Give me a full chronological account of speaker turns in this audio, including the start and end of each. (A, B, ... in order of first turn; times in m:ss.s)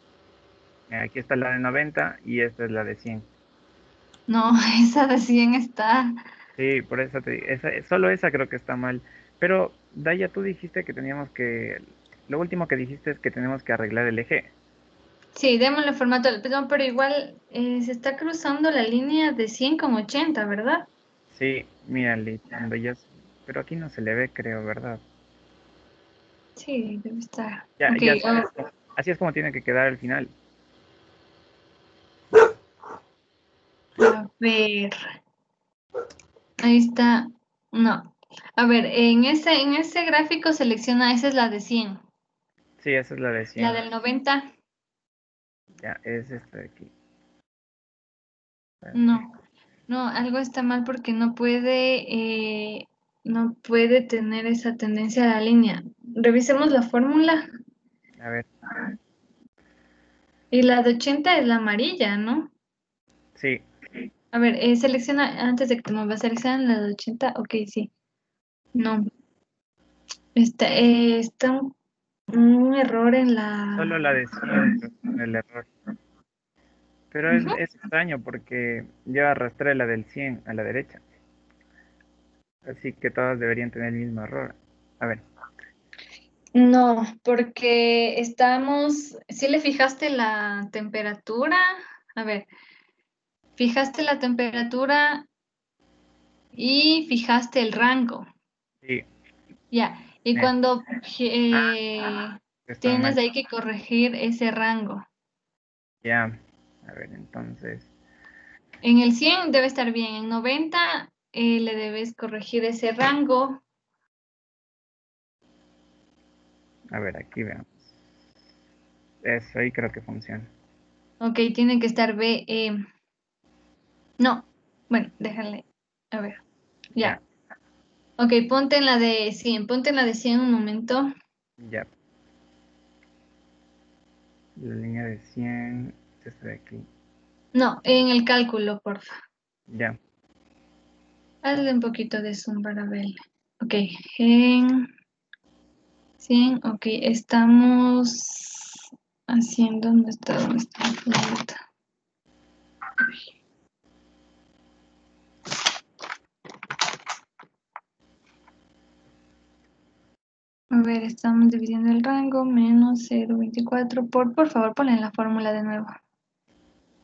0:00.9-0:03.3 A
0:04.3-0:06.2 B
0:06.6-0:14.5 A
0:15.3-0:20.9 B
0:21.3-0:25.0 A
0:26.6-0:28.5 B
0:27.8-0:30.3 A
0:34.0-0:35.0 B
0:36.6-0:42.0 B
0:42.8-0:43.8 A
0:43.6-0:44.5 B
0:45.8-0:46.9 A
0:48.8-0:49.2 A
0:48.9-0:49.3 B
0:49.9-0:57.5 B
0:58.2-0:58.5 A
1:00.5-1:02.5 B
1:03.4-1:03.6 A
1:04.3-1:07.9 B
1:08.8-1:09.0 B
1:10.3-1:11.7 B
1:12.3-1:14.0 B
1:13.8-1:15.7 A
1:17.1-1:21.0 A
1:17.3-1:17.6 B
1:22.6-1:25.2 A
1:26.5-1:32.5 B
1:33.6-1:35.2 B
1:36.5-1:38.3 B
1:39.7-1:45.0 B
1:42.7-1:43.2 A
1:46.0-1:47.9 A
1:48.8-1:53.6 B
1:56.9-1:57.8 A
1:59.2-2:00.5 A
2:01.2-2:02.8 B
2:04.2-2:06.4 B
2:08.2-2:11.1 B
2:11.6-2:11.9 A
2:14.6-2:16.8 A
2:17.5-2:19.1 B
2:19.7-2:20.0 A
2:21.4-2:24.9 B
2:26.2-2:31.6 B
2:40.7-2:46.0 B